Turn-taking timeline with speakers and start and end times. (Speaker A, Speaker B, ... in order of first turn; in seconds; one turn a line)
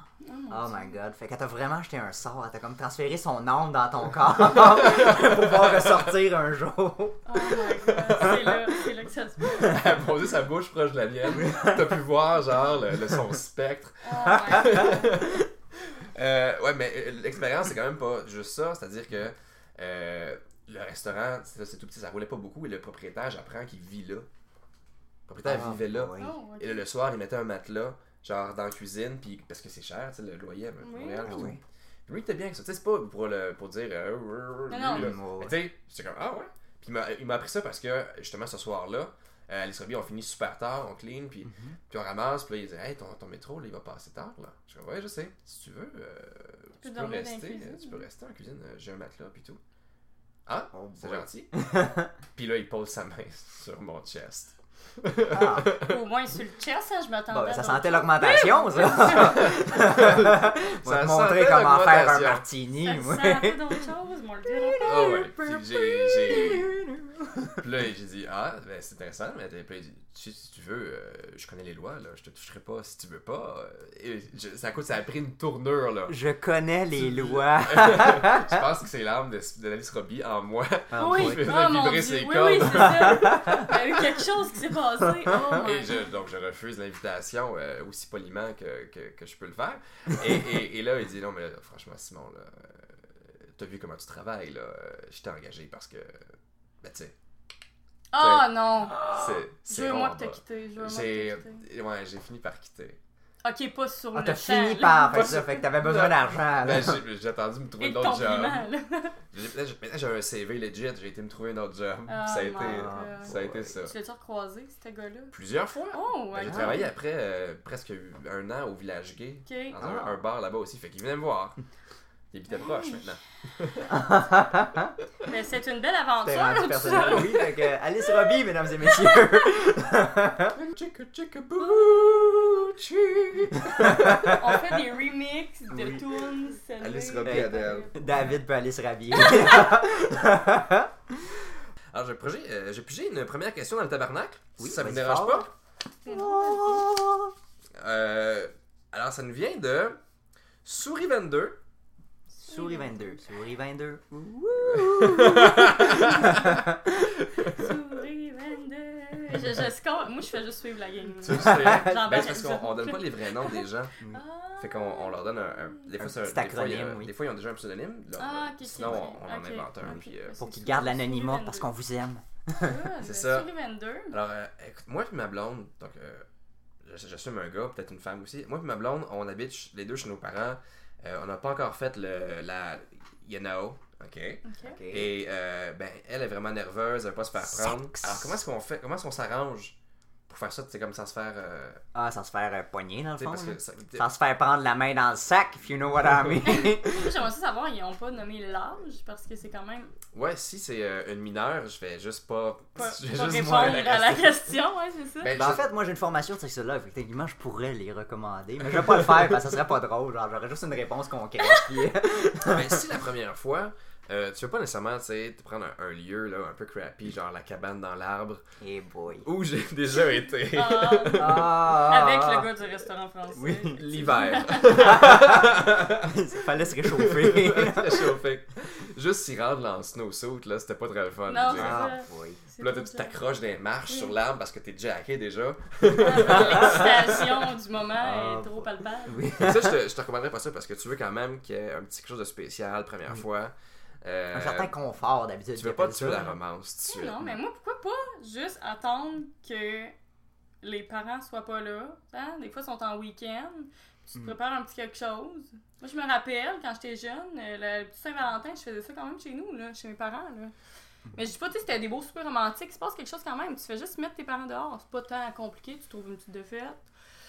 Speaker A: 0.2-0.9
Speaker B: 0.5-7.2
Speaker C: 4.6-6.1
Speaker A: 7.2-9.8
Speaker C: 7.8-8.6
Speaker C: 9.5-24.3
Speaker B: 11.4-11.7
Speaker A: 14.0-15.1
Speaker C: 25.3-49.6
Speaker B: 25.4-26.3
Speaker A: 26.2-26.8
Speaker A: 30.8-31.5
Speaker B: 31.2-31.6
Speaker A: 34.7-35.1
Speaker B: 34.9-35.5
Speaker A: 46.8-48.0
Speaker C: 50.5-51.5
Speaker B: 50.7-52.1
Speaker C: 52.4-55.9
Speaker B: 55.3-55.7
Speaker A: 55.8-59.6
Speaker B: 57.3-63.6
Speaker C: 59.0-62.4
Speaker A: 62.8-65.6
Speaker B: 64.5-67.5
Speaker C: 64.8-66.8
Speaker C: 67.6-76.1
Speaker B: 76.1-78.6
Speaker C: 76.9-83.6
Speaker B: 80.9-81.5
Speaker A: 81.0-86.0
Speaker B: 82.8-83.6
Speaker B: 85.0-85.4
Speaker C: 85.5-92.8
Speaker C: 93.4-96.2
Speaker C: 96.8-97.1
Speaker A: 98.1-99.1
Speaker C: 98.2-103.0
Speaker A: 99.6-101.6
Speaker A: 103.4-105.6
Speaker B: 104.1-107.0
Speaker C: 105.1-108.7
Speaker A: 107.8-109.2
Speaker C: 109.3-113.9
Speaker A: 112.1-115.3
Speaker B: 112.6-113.7
Speaker C: 115.3-121.6
Speaker A: 115.9-116.9
Speaker B: 116.5-116.8
Speaker A: 119.5-119.8
Speaker B: 119.8-120.2
Speaker C: 122.3-124.0
Speaker A: 122.5-123.1
Speaker B: 123.9-124.9
Speaker A: 125.2-127.6
Speaker B: 126.2-130.5
Speaker C: 127.0-127.3
Speaker C: 130.5-134.4
Speaker B: 133.7-134.4
Speaker A: 134.2-138.1
Speaker B: 135.7-136.0
Speaker C: 136.8-138.0
Speaker B: 137.2-141.2
Speaker C: 141.9-145.5
Speaker B: 144.6-145.5
Speaker A: 146.0-146.9
Speaker B: 146.1-147.3
Speaker C: 147.8-150.0
Speaker C: 150.6-151.6
Speaker A: 152.3-153.2
Speaker B: 152.4-156.7
Speaker C: 154.7-156.6
Speaker A: 156.1-156.4
Speaker C: 157.2-157.7
Speaker A: 157.4-165.9
Speaker C: 161.2-163.9
Speaker B: 161.5-162.0
Speaker C: 164.6-170.3
Speaker B: 166.0-167.1
Speaker A: 168.2-171.7
Speaker B: 169.9-172.7
Speaker A: 172.5-174.2
Speaker C: 173.0-173.5
Speaker C: 174.1-176.2
Speaker C: 176.8-189.7
Speaker A: 184.4-184.8
Speaker B: 184.6-185.1
Speaker B: 187.4-188.4
Speaker C: 190.3-191.8
Speaker B: 191.9-197.1
Speaker C: 193.2-194.1
Speaker A: 196.4-199.9
Speaker C: 200.1-204.3
Speaker A: 202.8-205.3
Speaker C: 205.2-205.6
Speaker B: 205.3-212.8
Speaker C: 212.4-218.4
Speaker B: 218.6-219.2
Speaker C: 219.2-221.5
Speaker A: 220.5-225.1
Speaker B: 221.2-222.5
Speaker B: 223.3-224.1
Speaker C: 223.7-226.2
Speaker B: 224.7-228.1
Speaker C: 226.8-231.9
Speaker A: 231.3-233.2
Speaker B: 231.5-232.4
Speaker C: 232.6-237.3
Speaker A: 233.9-234.1
Speaker A: 235.9-239.2
Speaker B: 236.3-236.8
Speaker B: 238.0-239.8
Speaker C: 239.4-244.7
Speaker B: 244.3-246.3
Speaker C: 245.6-247.4
Speaker A: 246.9-249.9
Speaker A: 250.6-260.5
Speaker A: 261.1-266.8